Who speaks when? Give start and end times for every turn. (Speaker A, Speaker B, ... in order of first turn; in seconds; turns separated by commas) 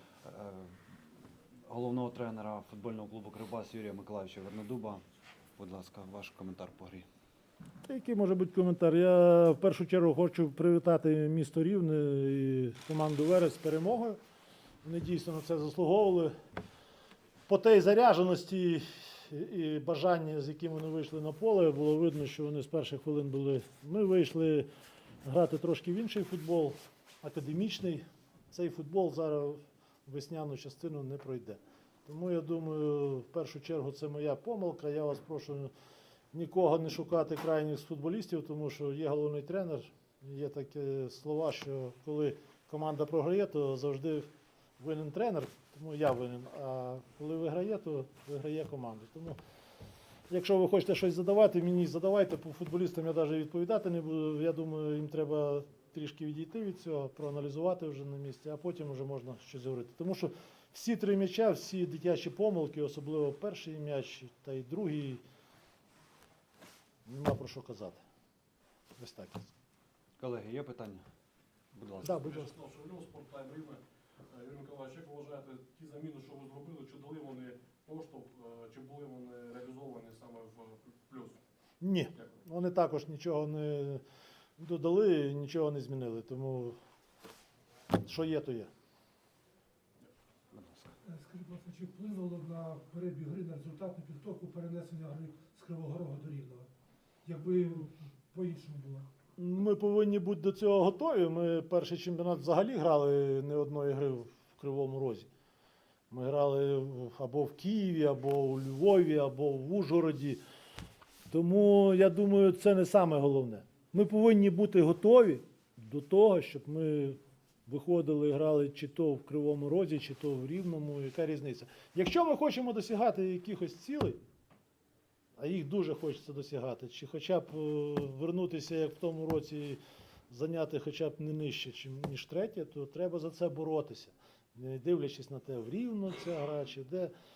Speaker A: 0.2-0.7, Speaker A: 1.7-5.0, Speaker A: 5.6-7.0, Speaker B: 7.8-14.2, Speaker B: 14.8-16.3, Speaker B: 17.5-24.7, Speaker B: 25.2-35.7, Speaker B: 36.3-49.4, Speaker B: 50.3-65.2, Speaker B: 67.0-68.0, Speaker B: 69.0-69.5, Speaker A: 70.2-71.0, Speaker A: 71.7-72.0, Speaker C: 72.0-73.8, Speaker B: 72.0-72.5, Speaker C: 74.3-81.4, Speaker B: 81.8-84.0, Speaker B: 84.6-86.8, Speaker B: 87.9-88.7, Speaker A: 90.5-90.9, Speaker D: 91.1-96.7, Speaker D: 97.3-97.8, Speaker D: 98.4-99.0, Speaker B: 99.4-105.3, Speaker B: 106.1-110.4, Speaker B: 111.3-124.2, Speaker B: 125.4-129.8, Speaker B: 130.3-137.1